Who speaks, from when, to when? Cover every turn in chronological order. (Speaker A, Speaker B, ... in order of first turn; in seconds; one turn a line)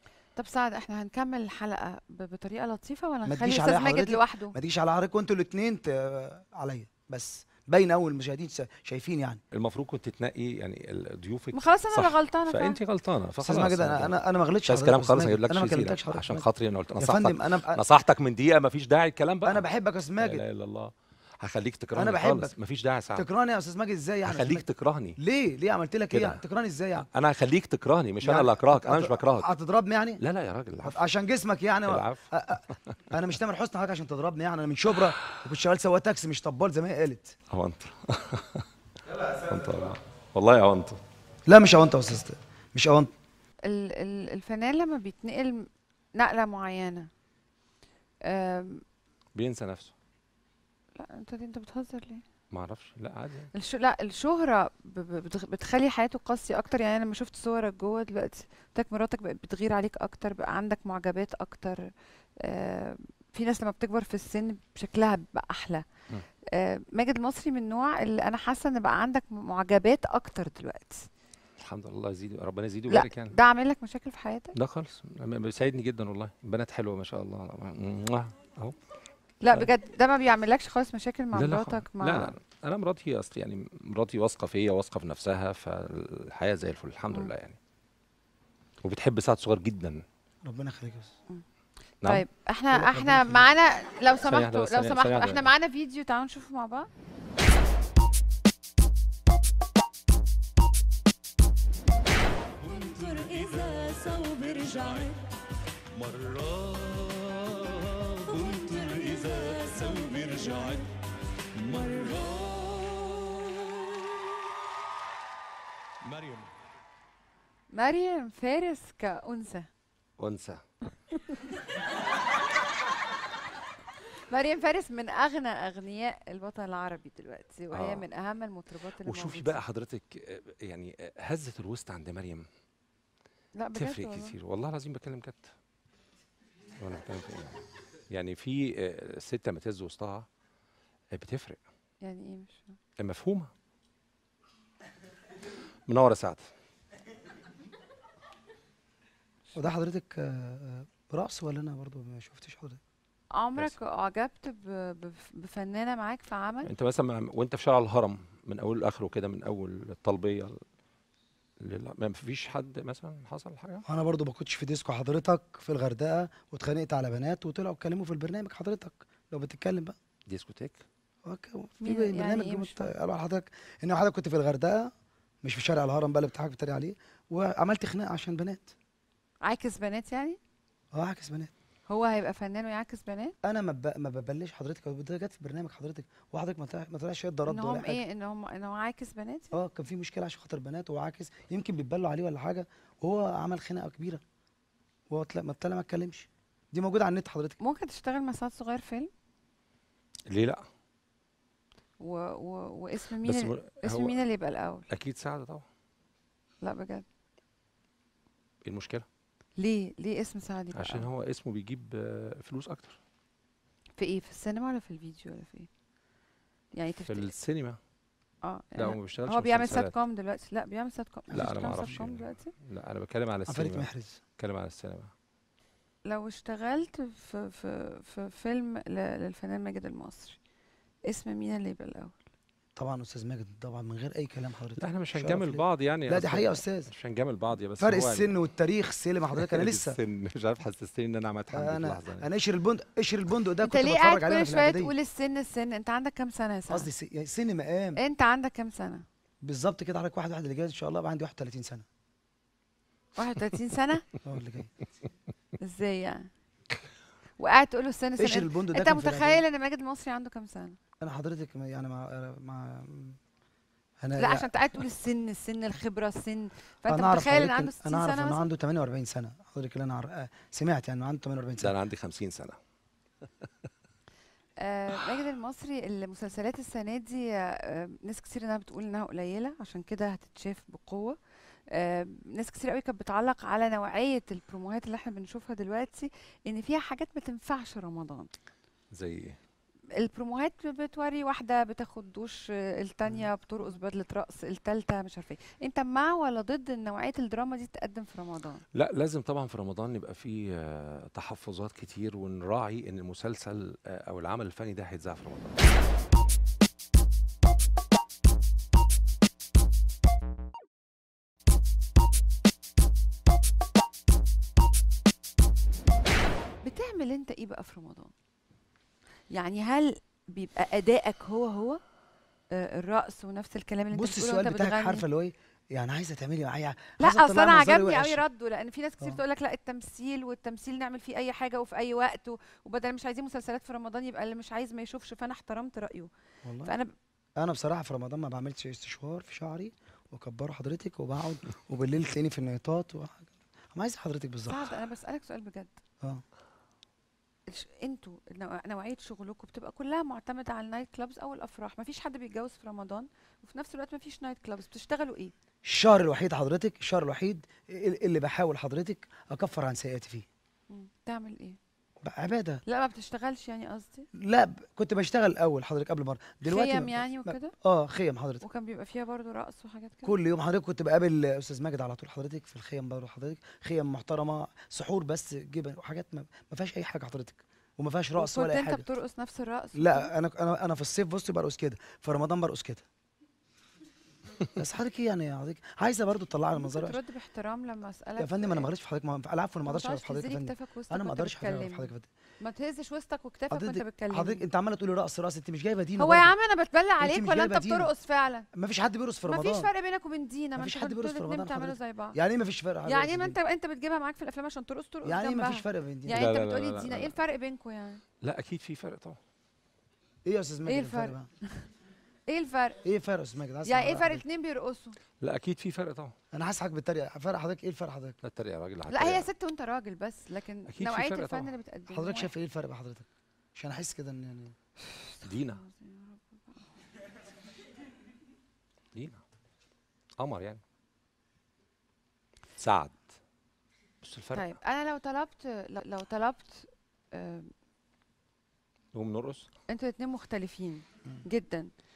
Speaker A: 0.4-4.6
Speaker B: 3.2-9.4
Speaker C: 9.5-19.6
Speaker A: 11.5-12.8
Speaker B: 13.4-16.5
Speaker B: 17.0-17.8
Speaker B: 19.4-20.4
Speaker C: 20.2-23.3
Speaker B: 21.9-22.5
Speaker B: 23.2-24.6
Speaker C: 24.3-25.2
Speaker B: 25.2-27.1
Speaker C: 26.1-26.4
Speaker C: 27.0-29.5
Speaker B: 28.2-30.2
Speaker C: 30.2-31.0
Speaker B: 30.8-37.4
Speaker C: 31.9-32.8
Speaker C: 37.5-41.0
Speaker B: 41.5-43.1
Speaker A: 43.6-47.1
Speaker A: 48.2-48.8
Speaker C: 49.4-49.9
Speaker A: 51.0-52.2
Speaker C: 52.5-53.5
Speaker A: 53.5-65.8
Speaker A: 66.5-71.1
Speaker C: 71.6-73.3
Speaker A: 72.9-74.5
Speaker C: 74.5-78.8
Speaker A: 79.4-82.3
Speaker C: 81.3-87.6
Speaker C: 88.8-90.0
Speaker B: 90.5-91.1
Speaker A: 92.0-96.9
Speaker B: 92.7-93.5
Speaker C: 94.2-95.5
Speaker C: 102.6-105.2
Speaker C: 105.9-110.9
Speaker C: 111.5-114.0
Speaker C: 116.1-116.5
Speaker A: 117.7-119.7
Speaker C: 120.2-120.6
Speaker A: 124.3-129.6
Speaker C: 127.7-128.1
Speaker C: 129.1-132.5
Speaker A: 133.6-134.4
Speaker C: 133.8-135.5
Speaker C: 136.8-140.3
Speaker C: 141.1-141.6
Speaker A: 142.0-142.8
Speaker C: 143.0-143.5
Speaker C: 145.9-146.4
Speaker B: 149.5-152.8
Speaker A: 153.3-156.7
Speaker C: 156.7-160.6
Speaker C: 161.6-163.8
Speaker B: 163.9-169.9
Speaker C: 170.3-170.8
Speaker B: 171.2-174.9
Speaker A: 171.8-172.9
Speaker B: 175.4-178.7
Speaker A: 179.4-180.4
Speaker B: 180.9-181.5
Speaker A: 181.9-183.3
Speaker B: 183.4-188.0
Speaker A: 187.5-189.6
Speaker B: 189.5-194.2
Speaker B: 195.1-197.6
Speaker A: 197.6-199.1
Speaker C: 200.3-200.6
Speaker A: 202.0-204.9
Speaker C: 203.2-204.2
Speaker C: 204.9-205.7
Speaker A: 206.6-207.1
Speaker C: 208.6-209.1
Speaker A: 209.6-211.1
Speaker C: 210.8-213.0
Speaker A: 214.0-215.7
Speaker A: 216.8-217.3
Speaker C: 217.1-217.8
Speaker A: 218.4-222.5
Speaker C: 218.8-219.9
Speaker B: 221.3-222.0
Speaker C: 221.3-225.1
Speaker B: 223.5-224.2
Speaker A: 226.1-230.4
Speaker A: 231.1-232.2
Speaker B: 232.8-236.9
Speaker C: 234.8-238.3
Speaker B: 237.8-240.0
Speaker C: 239.3-242.3
Speaker B: 241.5-244.9
Speaker A: 243.6-246.9
Speaker B: 246.7-248.0
Speaker A: 248.0-249.1
Speaker B: 249.4-251.8
Speaker A: 253.2-254.1
Speaker B: 254.2-254.7
Speaker A: 255.6-256.3
Speaker A: 257.4-260.8
Speaker B: 258.2-259.4
Speaker B: 261.0-263.2
Speaker B: 264.0-264.5
Speaker A: 264.2-268.4
Speaker B: 266.9-271.7
Speaker C: 271.6-272.6
Speaker A: 274.6-281.2
Speaker A: 281.7-288.3
Speaker C: 288.9-289.4
Speaker A: 289.9-298.6
Speaker C: 298.7-305.6
Speaker A: 316.6-318.1
Speaker A: 319.3-321.8
Speaker A: 322.5-325.0
Speaker B: 323.9-328.2
Speaker A: 327.0-336.1
Speaker B: 336.4-336.7
Speaker A: 336.6-336.9
Speaker B: 337.4-344.7
Speaker A: 344.5-345.8
Speaker A: 347.5-355.3
Speaker B: 355.6-360.3
Speaker A: 360.7-361.6
Speaker B: 362.0-362.6
Speaker A: 362.7-364.1
Speaker B: 364.1-368.4
Speaker A: 366.4-367.5
Speaker A: 368.4-370.2
Speaker B: 370.0-378.9
Speaker A: 378.2-380.1
Speaker B: 379.8-382.9
Speaker B: 384.6-387.0
Speaker A: 386.6-388.7
Speaker B: 388.2-392.1
Speaker A: 389.6-391.9
Speaker A: 392.4-394.4
Speaker B: 393.5-396.3
Speaker A: 396.0-398.5
Speaker B: 397.0-397.9
Speaker B: 398.5-399.7
Speaker A: 399.3-402.2
Speaker B: 400.6-403.4
Speaker A: 402.9-408.0
Speaker B: 405.0-406.2
Speaker C: 406.1-407.1
Speaker C: 408.2-409.2
Speaker B: 410.2-411.3
Speaker A: 410.7-411.7
Speaker A: 412.3-412.8
Speaker B: 412.8-414.2
Speaker A: 413.6-415.0
Speaker C: 415.2-416.1
Speaker B: 416.3-418.2
Speaker C: 418.2-419.3
Speaker A: 418.9-422.3
Speaker C: 420.7-421.5
Speaker B: 421.9-424.5
Speaker A: 425.2-426.6
Speaker C: 425.2-425.6
Speaker C: 428.9-429.2
Speaker C: 430.2-430.6
Speaker C: 432.6-433.1
Speaker C: 434.0-434.5
Speaker A: 434.3-437.5
Speaker C: 438.9-439.5
Speaker A: 439.7-441.7